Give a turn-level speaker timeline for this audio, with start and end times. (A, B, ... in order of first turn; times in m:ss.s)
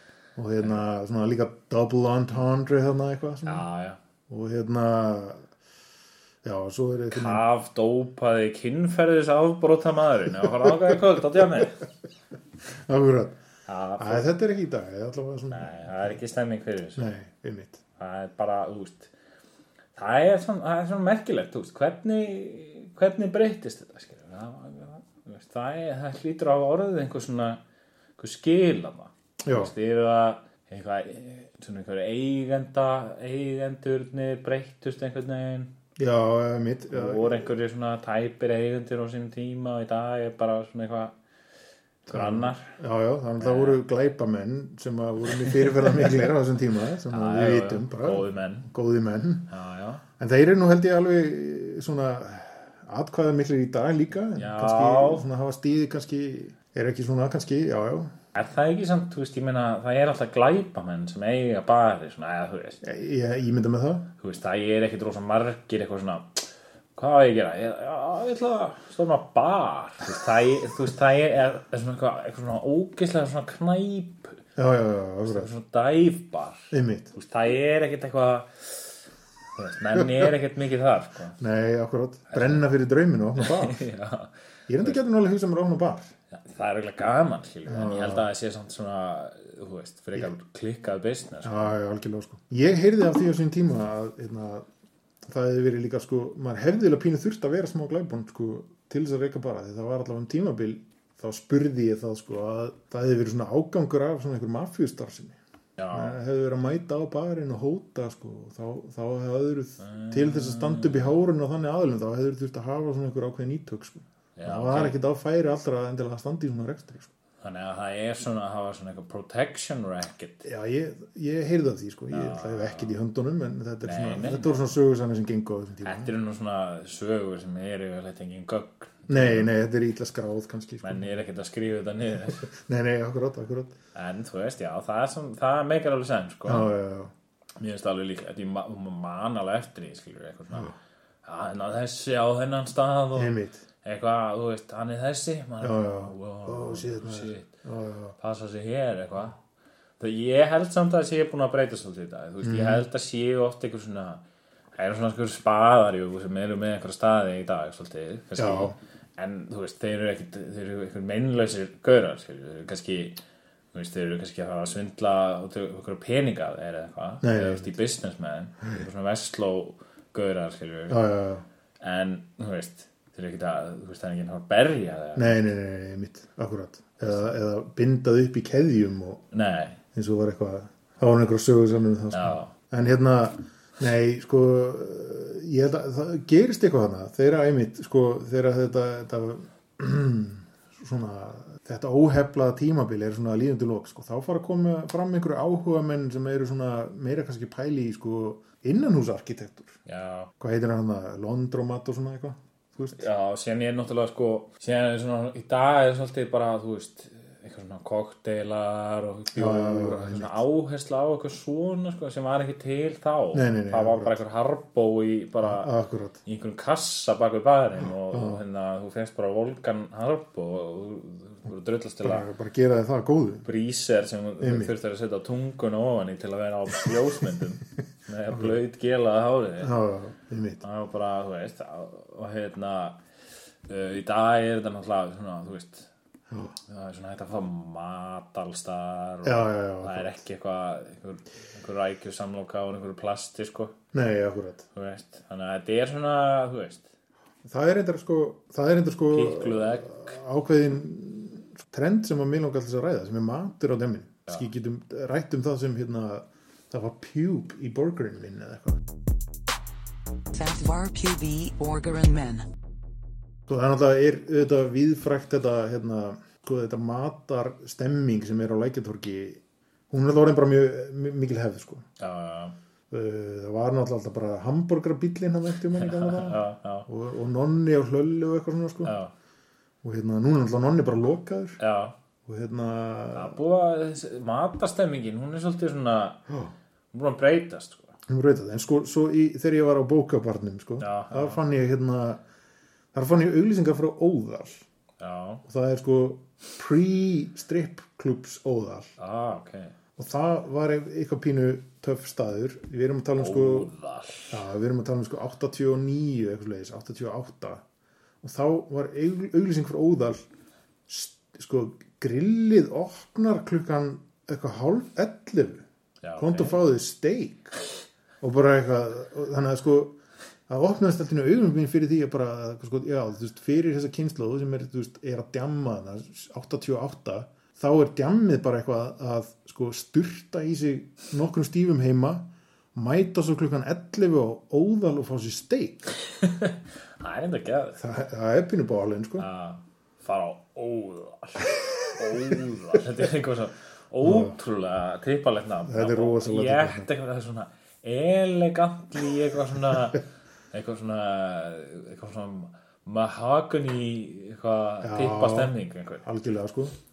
0:00.4-0:03.6 A
0:03.5-0:04.0 B
0:04.3-0:05.5 A
0:06.4-0:07.4 A
0:07.1-0:11.8 B
0:12.7-0:13.4 A
0:13.7-0:14.3 B
0:14.0-0:16.2 A
0:15.5-0:17.1 B
0:17.0-0:17.8 A
0:18.0-0:19.1 B
0:20.0-0:27.6 B
0:28.2-0:35.7 B
0:29.4-0:29.7 A
0:36.0-0:37.5 A
0:36.9-0:41.2 B
0:42.1-0:42.7 B
0:42.1-0:49.5 A
0:43.4-0:43.8 B
0:45.5-0:45.9 B
0:47.1-0:48.7 B
0:49.5-0:50.0 B
0:50.2-0:58.1 A
0:54.4-0:55.2 B
0:58.3-1:02.8 B
1:02.8-1:04.1 A
1:04.2-1:14.4 B
1:14.6-1:15.5 A
1:15.3-1:19.0 B
1:16.7-1:17.1 A
1:19.6-1:21.4 B
1:20.0-1:20.3 A
1:21.4-1:23.8 A
1:22.3-1:22.6 B
1:23.4-1:25.0 B
1:24.7-1:26.1 A
1:26.3-1:31.7 B
1:27.7-1:28.3 A
1:31.4-1:34.7 A
1:35.2-1:45.4 A
1:45.8-1:46.2 B
1:45.9-1:57.1 A
1:49.8-1:51.2 B
1:54.4-1:55.0 B
1:57.4-2:00.4 B
2:00.4-2:06.1 A
2:02.1-2:02.9 B
2:03.8-2:04.6 B
2:05.8-2:09.5 B
2:09.1-2:11.2 A
2:10.8-2:12.5 B
2:12.3-2:13.7 A
2:14.0-2:16.7 B
2:16.5-2:17.1 A
2:17.6-2:27.5 B
2:23.2-2:23.6 A
2:25.6-2:28.2 A
2:28.2-2:29.4 B
2:30.0-2:34.2 B
2:32.4-2:32.8 A
2:34.8-2:43.2 B
2:38.4-2:38.8 A
2:43.7-2:51.0 B
2:47.2-2:47.7 A
2:50.9-2:51.4 A
2:51.8-2:55.4 B
2:55.2-2:59.2 A
2:59.3-2:59.8 B
2:59.9-3:19.8 A
3:02.1-3:02.5 B
3:19.9-3:20.3 B
3:20.4-3:23.0 A
3:23.0-3:35.7 B
3:29.4-3:30.4 A
3:33.3-3:34.2 A
3:35.4-3:36.2 A
3:36.2-3:42.3 B
3:38.1-3:38.4 A
3:42.0-3:43.5 A
3:43.4-3:49.7 B
3:44.4-3:44.8 A
3:49.6-3:50.6 A
3:50.6-3:53.0 B
3:53.7-3:55.9 B
3:56.7-4:03.8 B
3:59.2-4:00.2 A
4:03.9-4:04.7 A
4:04.8-4:06.9 B
4:07.4-4:18.8 A
4:09.1-4:10.1 B
4:20.3-4:22.5 C
4:23.5-4:31.8 A
4:32.0-4:32.6 B
4:32.9-4:39.0 A
4:35.8-4:36.9 B
4:38.8-4:39.1 B
4:39.8-4:41.6 A
4:41.6-4:42.0 B
4:42.3-4:43.4 A
4:43.1-4:46.3 B
4:46.9-4:47.9 B
4:48.1-4:52.2 A
4:50.8-4:51.4 B
4:52.9-4:54.6 A
4:55.0-4:55.4 B
4:55.5-4:58.9 A
4:59.0-4:59.8 B
5:00.0-5:03.7 A
5:03.2-5:04.4 B
5:04.3-5:07.6 A
5:08.2-5:10.2 A
5:10.9-5:15.6 A
5:16.0-5:16.6 B
5:16.2-5:17.6 A
5:18.2-5:20.0 A
5:20.5-5:35.9 A
5:36.2-5:37.8 B
5:37.8-5:39.3 A
5:39.2-5:56.0 B
5:44.0-5:44.4 A
5:45.7-5:46.9 A
5:54.8-5:56.7 A